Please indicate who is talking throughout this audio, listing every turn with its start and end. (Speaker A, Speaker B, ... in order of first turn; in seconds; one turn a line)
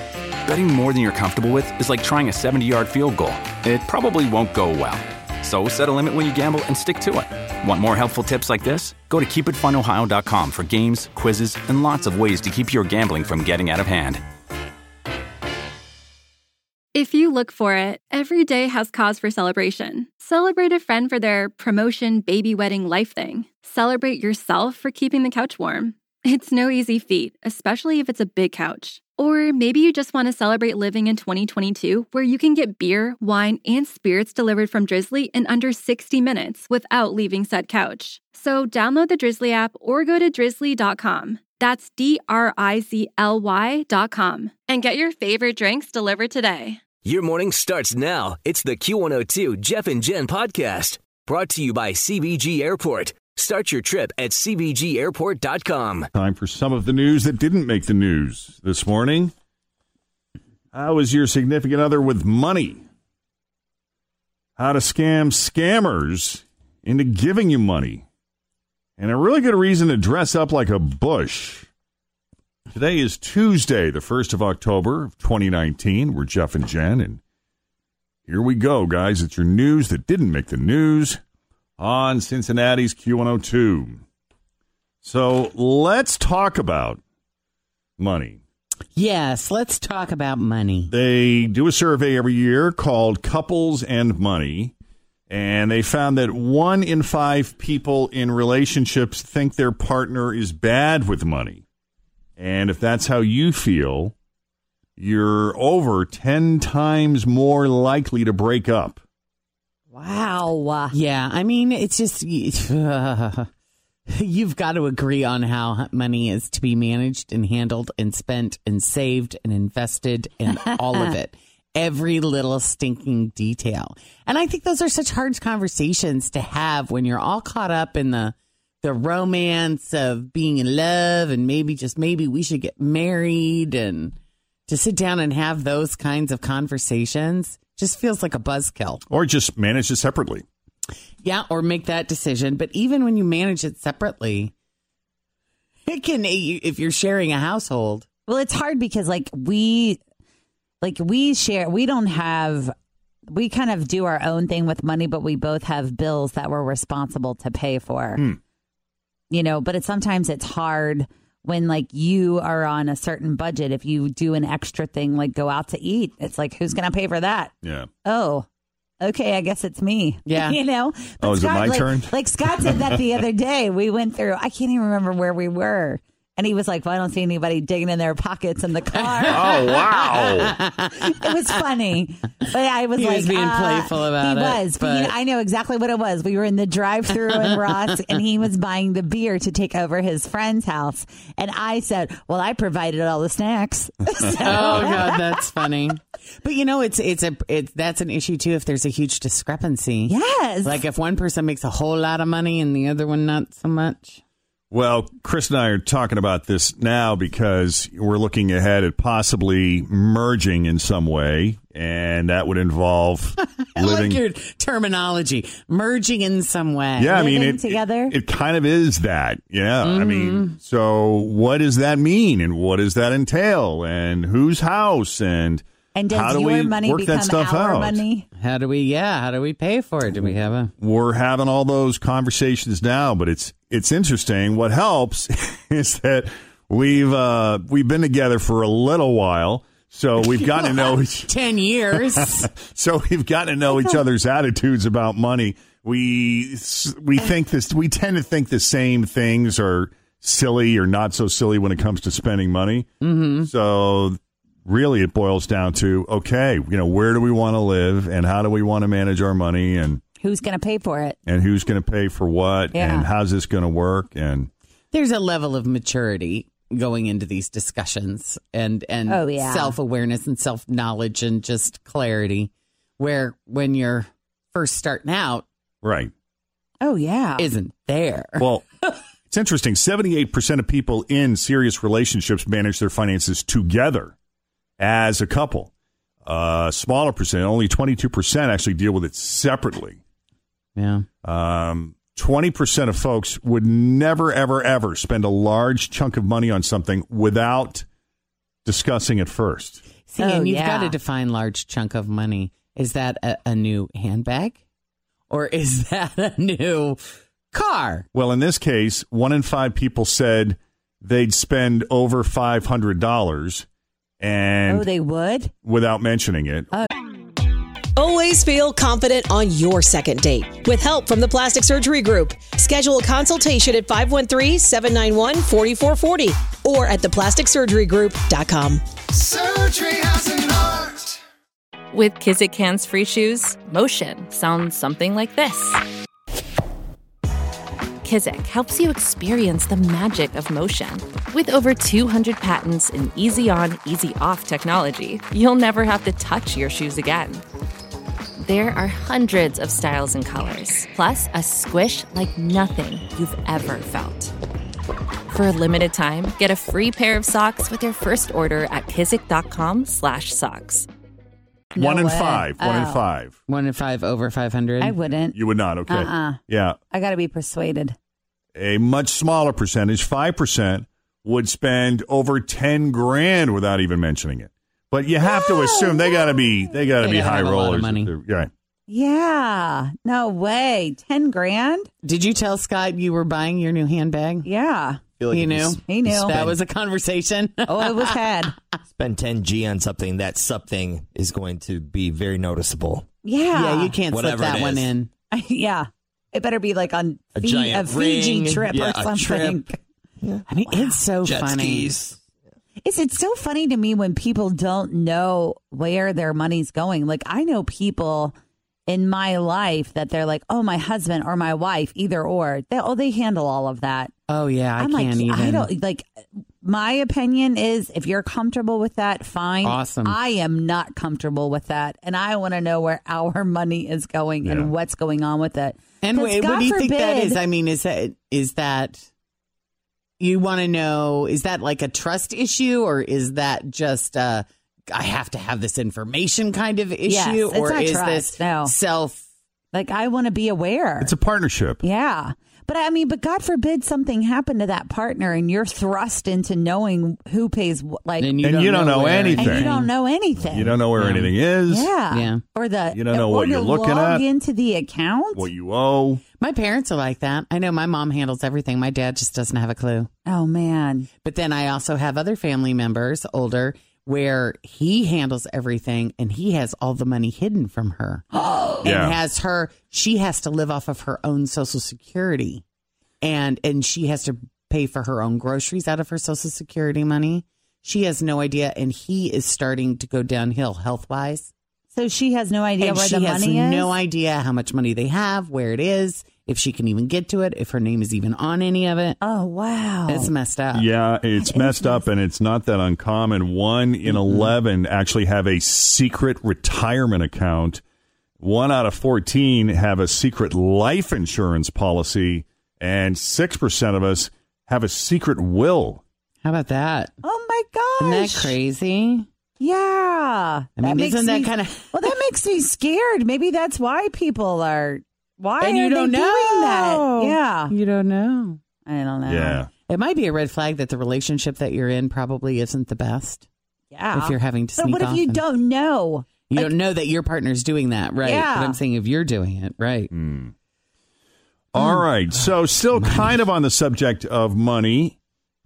Speaker A: 0.5-14.2
Speaker B: 16.9-46.8
Speaker C: 47.0-56.1
Speaker D: 56.1-59.3
Speaker D: 60.7-62.8
Speaker D: 64.6-68.0
Speaker D: 69.0-71.7
Speaker D: 72.7-77.2
Speaker D: 78.3-81.2
Speaker D: 81.8-84.0
Speaker D: 85.0-87.0
Speaker D: 88.0-88.4
Speaker E: 88.9-90.9
Speaker D: 90.9-94.7
Speaker D: 95.3-101.6
Speaker D: 102.4-104.1
Speaker D: 105.0-109.0
Speaker F: 109.9-110.9
Speaker E: 110.9-113.5
Speaker E: 114.1-134.2
Speaker E: 134.7-139.0
Speaker D: 139.1-140.4
Speaker E: 141.2-144.5
Speaker E: 145.8-148.1
Speaker F: 148.3-150.0
Speaker F: 150.8-152.8
Speaker F: 153.3-158.2
Speaker F: 159.3-167.5
Speaker D: 167.6-167.9
Speaker F: 168.0-168.5
Speaker F: 169.0-179.9
Speaker E: 170.2-170.6
Speaker D: 171.2-172.8
Speaker E: 178.9-181.3
Speaker D: 179.2-180.5
Speaker F: 181.0-195.4
Speaker E: 182.9-185.2
Speaker E: 187.2-187.8
Speaker E: 194.4-204.2
Speaker F: 200.1-200.8
Speaker D: 204.7-214.2
Speaker E: 213.7-217.3
Speaker D: 217.0-228.0
Speaker F: 217.1-218.1
Speaker E: 219.8-220.6
Speaker F: 225.9-228.2
Speaker E: 228.4-230.7
Speaker D: 230.8-241.3
Speaker E: 240.2-242.5
Speaker D: 242.0-252.9
Speaker E: 253.0-253.5
Speaker D: 253.4-260.0
Speaker F: 260.2-261.2
Speaker D: 261.2-264.5
Speaker F: 262.7-263.1
Speaker E: 264.9-275.4
Speaker F: 269.1-269.8
Speaker D: 275.8-276.1
Speaker F: 276.8-277.5
Speaker E: 277.4-278.9
Speaker D: 278.4-278.6
Speaker D: 279.3-284.1
Speaker D: 284.8-285.7
Speaker D: 286.2-290.0
Speaker E: 290.8-291.1
Speaker D: 291.2-297.9
Speaker D: 298.6-299.8
Speaker E: 300.1-304.6
Speaker F: 300.2-300.9
Speaker E: 305.3-308.1
Speaker D: 308.1-313.6
Speaker D: 314.2-314.9
Speaker F: 314.7-315.5
Speaker D: 315.6-316.7
Speaker G: 317.9-330.8
Speaker H: 331.9-335.8
Speaker H: 338.0-347.4
Speaker H: 348.4-354.3
Speaker H: 355.3-360.9
Speaker F: 361.8-363.0
Speaker D: 361.8-363.4
Speaker E: 363.5-364.9
Speaker F: 364.8-366.4
Speaker D: 365.3-366.8
Speaker F: 366.9-367.9
Speaker D: 368.6-378.5
Speaker F: 375.2-376.4
Speaker E: 377.0-378.1
Speaker F: 378.9-381.9
Speaker E: 382.0-384.5
Speaker F: 384.4-385.0
Speaker I: 385.1-386.6
Speaker E: 385.3-388.5
Speaker F: 385.9-386.4
Speaker F: 387.7-388.6
Speaker I: 388.9-393.1
Speaker F: 393.2-394.0
Speaker E: 393.5-395.1
Speaker I: 394.1-394.9
Speaker F: 395.3-399.8
Speaker I: 397.4-399.6
Speaker E: 398.4-398.7
Speaker E: 400.5-401.9
Speaker F: 400.7-401.0
Speaker I: 401.2-402.2
Speaker F: 402.8-408.3
Speaker F: 408.9-414.1
Speaker E: 414.3-415.7
Speaker F: 414.8-416.1
Speaker F: 416.6-427.4
Speaker E: 419.6-420.2
Speaker D: 424.4-424.7
Speaker E: 426.0-429.1
Speaker E: 430.2-439.2
Speaker F: 437.1-438.7
Speaker F: 439.7-441.1
Speaker D: 441.0-441.8
Speaker F: 441.8-448.4
Speaker E: 448.2-449.9
Speaker D: 448.4-449.7
Speaker F: 449.4-450.8
Speaker D: 450.5-451.9
Speaker E: 451.0-451.3
Speaker F: 451.7-455.5
Speaker E: 452.1-452.4
Speaker D: 452.9-454.2
Speaker D: 455.4-456.2
Speaker E: 456.4-460.1
Speaker F: 460.2-461.1
Speaker E: 461.2-468.2
Speaker F: 468.4-468.9
Speaker E: 468.8-472.6
Speaker D: 468.8-469.2
Speaker E: 473.2-481.5
Speaker F: 481.9-483.9
Speaker E: 482.8-489.2
Speaker F: 489.2-490.3
Speaker E: 490.1-490.9
Speaker D: 490.7-497.8
Speaker F: 491.4-492.0
Speaker E: 494.1-494.5
Speaker D: 498.4-506.0
Speaker E: 506.4-507.1
Speaker F: 507.2-508.5
Speaker E: 508.0-509.3
Speaker F: 509.6-517.7
Speaker E: 510.8-512.2
Speaker E: 515.6-518.6
Speaker F: 518.9-519.6
Speaker D: 519.3-519.7
Speaker E: 519.9-523.5
Speaker F: 523.9-526.7
Speaker E: 524.1-525.4
Speaker E: 526.5-530.1
Speaker F: 528.2-528.8
Speaker D: 530.1-530.5
Speaker D: 531.7-535.1
Speaker E: 533.0-533.4